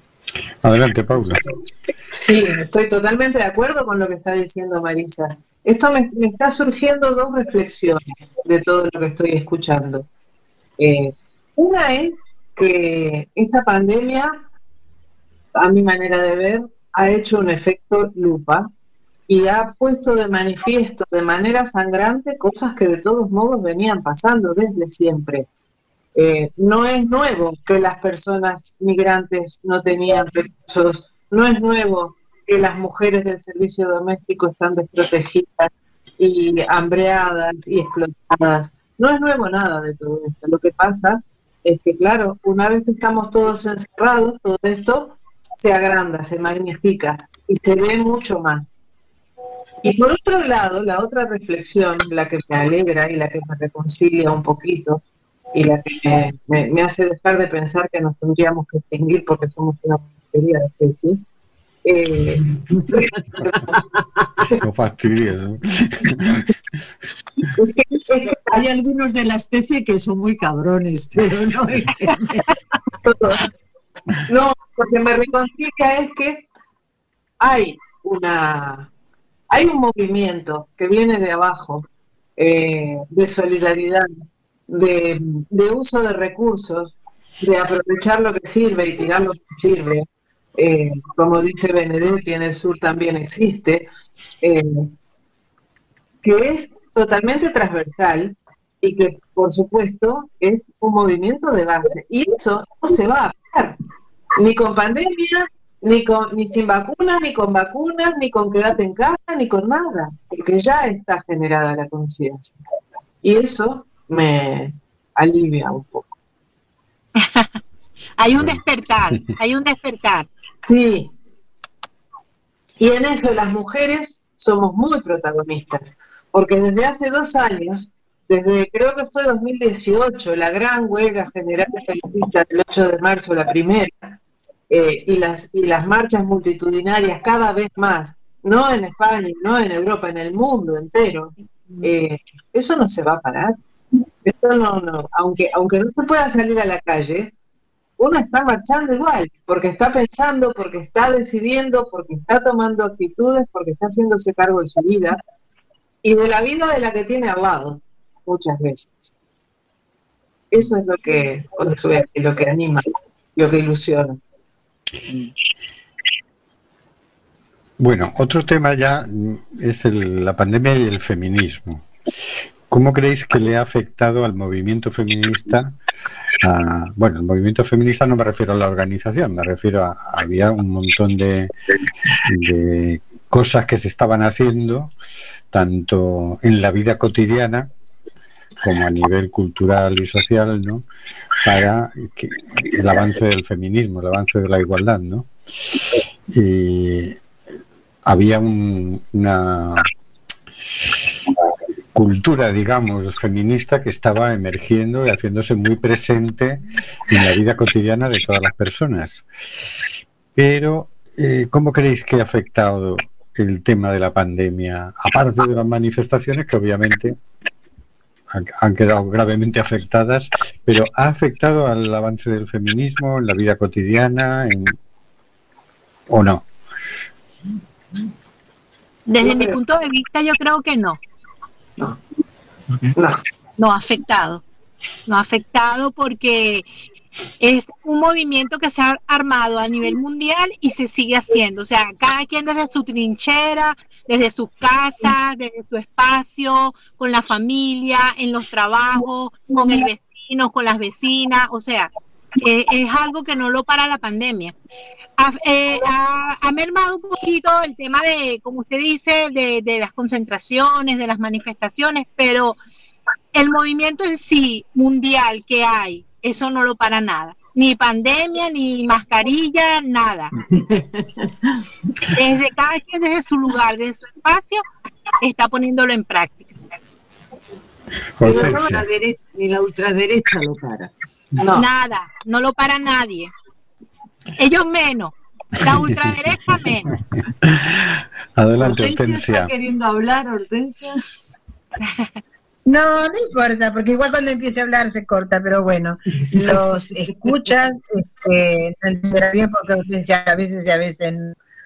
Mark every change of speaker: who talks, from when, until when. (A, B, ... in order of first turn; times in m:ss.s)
0:00.6-0:01.4 A
0:02.2-0:10.1 B
0:10.8-0:14.4 B
0:15.5-0:18.7 B
0:19.3-0:25.5 B
0:26.1-0:48.7 B
0:49.8-0:55.0 B
0:55.5-1:01.2 B
1:01.8-1:03.0 B
1:04.6-1:06.4 A
1:07.6-1:08.6 B
1:08.5-1:12.5 C
1:13.0-1:13.5 B
1:14.2-1:16.4 B
1:17.4-1:18.9 B
1:19.5-1:21.8 B
1:22.4-1:33.9 B
1:34.4-1:34.9 B
1:36.2-1:43.8 B
1:44.4-1:52.6 B
1:53.2-1:56.1 B
1:57.2-1:57.5 D
1:58.2-2:00.3 D
2:00.7-2:01.1 B
2:02.8-2:14.1 B
2:14.7-2:23.6 B
2:24.2-2:27.3 B
2:28.0-2:35.2 B
2:36.0-2:39.1 B
2:40.5-2:44.2 B
2:47.8-2:51.9 A
2:52.7-2:55.8 A
2:56.4-3:01.5 A
3:02.2-3:04.9 A
3:05.5-3:07.7 A
3:08.6-3:10.8 A
3:11.4-3:15.3 A
3:16.3-3:17.2 A
3:18.0-3:19.9 A
3:21.9-3:29.3 A
3:30.3-3:37.2 A
3:38.3-3:44.8 A
3:46.1-3:46.4 A
3:49.1-3:51.0 D
3:49.2-3:49.6 B
3:52.9-3:53.2 B
3:53.6-3:54.4 D
3:55.1-3:56.6 D
3:57.4-4:11.9 D
4:12.4-4:14.5 D
4:15.2-4:22.6 D
4:23.3-4:30.3 D
4:30.5-4:31.6 C
4:32.1-4:34.6 D
4:35.2-4:36.5 D
4:38.2-4:38.8 A
4:38.2-4:38.7 B
4:38.3-4:40.9 C
4:41.4-4:41.7 B
4:41.5-4:43.3 D
4:44.4-4:46.9 D
4:47.4-4:49.5 A
4:48.6-4:51.0 C
4:52.6-5:01.4 E